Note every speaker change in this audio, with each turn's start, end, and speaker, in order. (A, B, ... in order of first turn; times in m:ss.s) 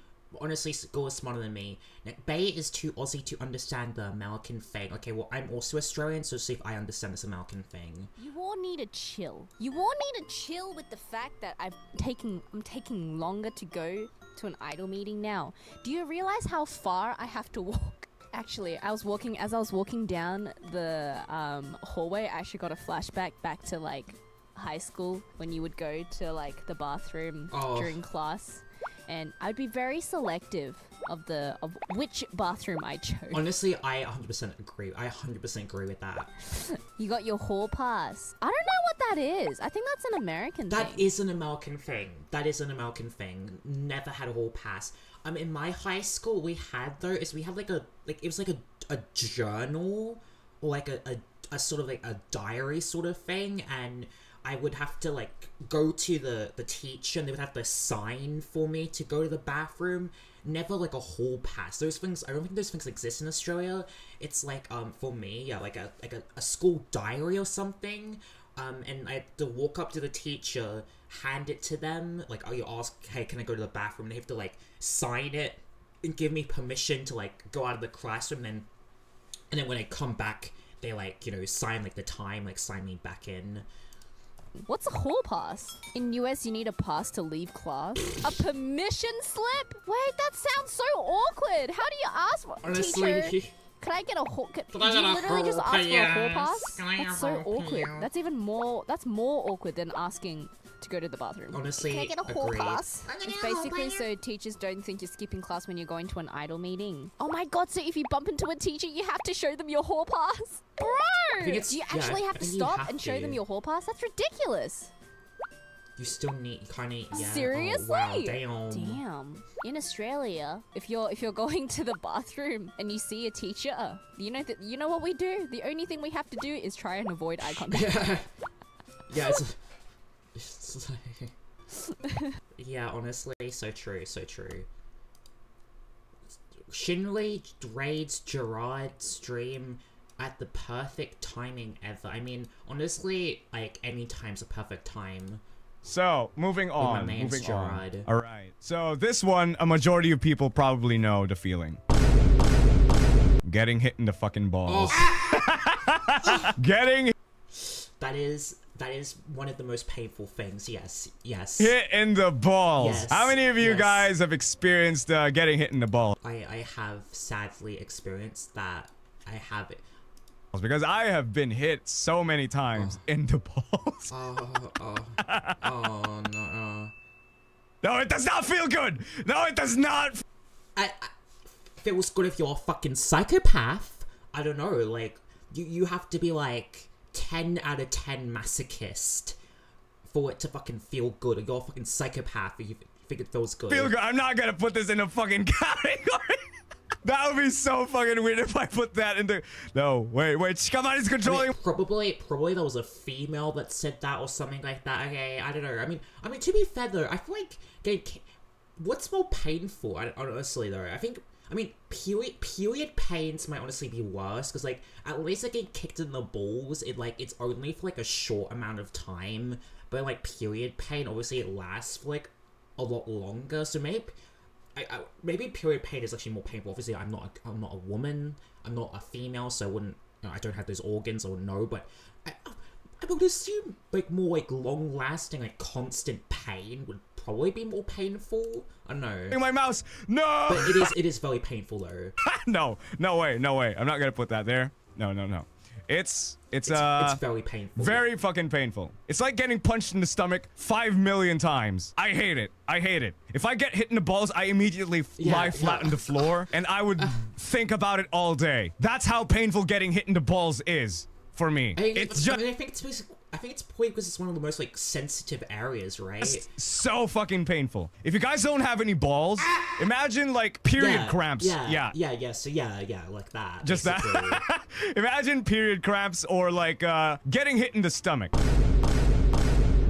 0:00.3-0:08.1 A
0:08.2-0:33.5 B
0:27.5-0:28.0 A
0:33.3-0:36.3 A
0:36.6-0:41.1 B
0:40.7-1:18.7 A
1:19.5-1:23.6 A
1:24.7-1:54.9 B
1:32.6-1:33.5 A
1:34.7-1:38.1 A
1:41.5-1:44.1 A
1:51.4-1:53.4 A
1:56.0-1:59.0 A
1:57.1-2:08.2 B
2:07.7-2:08.3 A
2:09.1-2:09.6 A
2:10.3-2:11.3 A
2:12.6-2:14.7 A
2:16.7-2:25.4 A
2:25.8-2:31.8 C
2:26.8-2:28.1 A
2:33.4-2:37.1 C
2:34.6-2:35.1 A
2:36.2-2:36.5 A
2:37.5-2:41.7 A
2:41.6-2:46.1 C
2:42.8-2:44.1 A
2:46.2-2:49.8 A
2:50.5-2:54.1 C
2:52.7-2:53.0 A
2:54.1-2:56.9 A
2:55.2-2:55.6 C
2:57.8-3:00.2 C
3:00.8-3:09.4 A
3:10.1-3:13.9 A
3:13.7-3:16.4 C
3:17.0-3:21.5 C
3:21.2-3:28.2 A
3:28.8-3:44.1 A
3:44.8-3:59.4 A
3:59.3-4:00.9 C
4:00.5-4:02.1 A
4:02.2-4:07.2 C
4:06.6-4:08.1 A
4:07.7-4:22.4 C
4:15.2-4:16.4 A
4:17.0-4:17.2 A
4:21.7-4:26.5 A
4:26.2-4:31.9 C
4:30.8-4:34.4 A
4:33.6-4:38.3 C